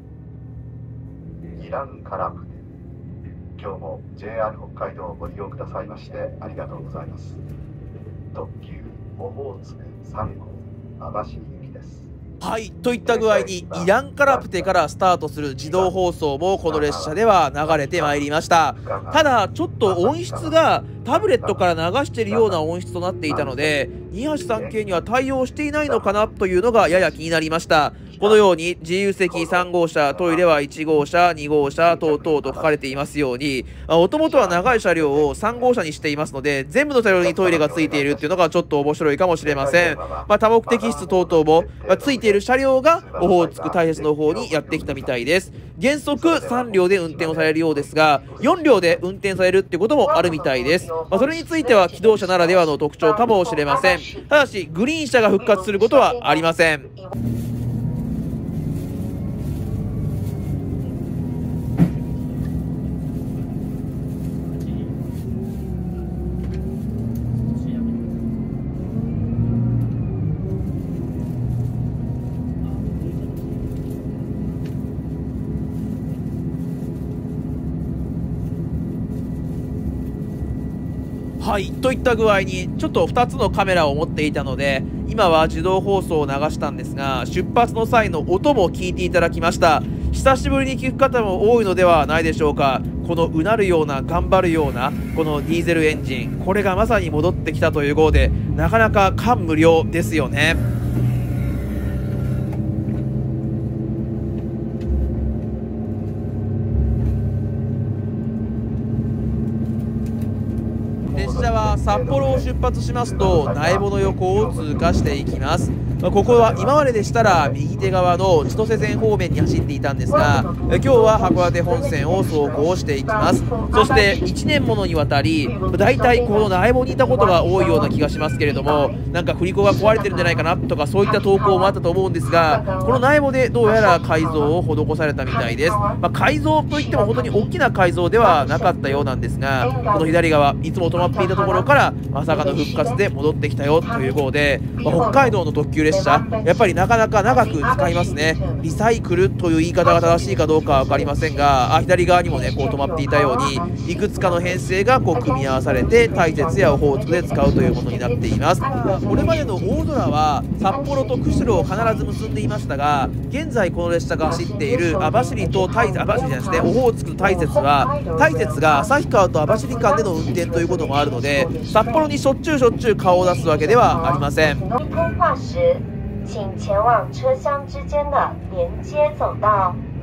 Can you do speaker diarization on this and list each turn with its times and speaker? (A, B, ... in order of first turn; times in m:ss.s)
0:01.5-0:02.6 A
0:03.6-0:07.4 A
0:08.3-0:12.1 A
0:12.4-0:56.9 B
0:13.1-0:14.8 A
0:15.6-0:15.9 A
0:16.7-0:19.3 A
0:19.8-0:21.6 A
0:22.3-0:22.6 A
0:23.3-0:23.8 A
0:24.4-0:24.8 A
0:25.8-0:27.2 A
0:28.1-0:28.4 A
0:29.2-0:30.4 A
0:31.8-0:33.0 A
0:34.2-0:35.8 A
0:37.1-0:38.3 A
0:39.4-0:42.4 A
0:42.9-0:45.3 A
0:46.1-0:49.0 A
0:50.1-0:54.4 C
0:55.4-0:57.1 C
1:21.4-1:40.6 B
1:51.0-1:55.4 A
1:51.1-2:54.6 B
1:56.1-1:59.1 A
2:00.1-2:04.3 C
2:05.4-2:09.0 C
2:09.6-2:10.4 C
2:11.0-2:13.0 C
2:13.6-2:14.6 C
2:15.3-2:16.0 C
2:16.7-2:17.5 C
2:18.2-2:19.0 C
2:19.6-2:20.2 C
2:20.9-2:21.7 C
2:22.3-2:23.0 C
2:23.8-2:24.2 C
2:24.8-2:25.3 C
2:25.9-2:26.7 C
2:27.2-2:28.8 C
2:29.8-2:31.5 C
2:32.2-2:39.9 C
2:40.7-2:42.6 C
2:44.2-2:52.1 C
2:53.0-2:59.8 C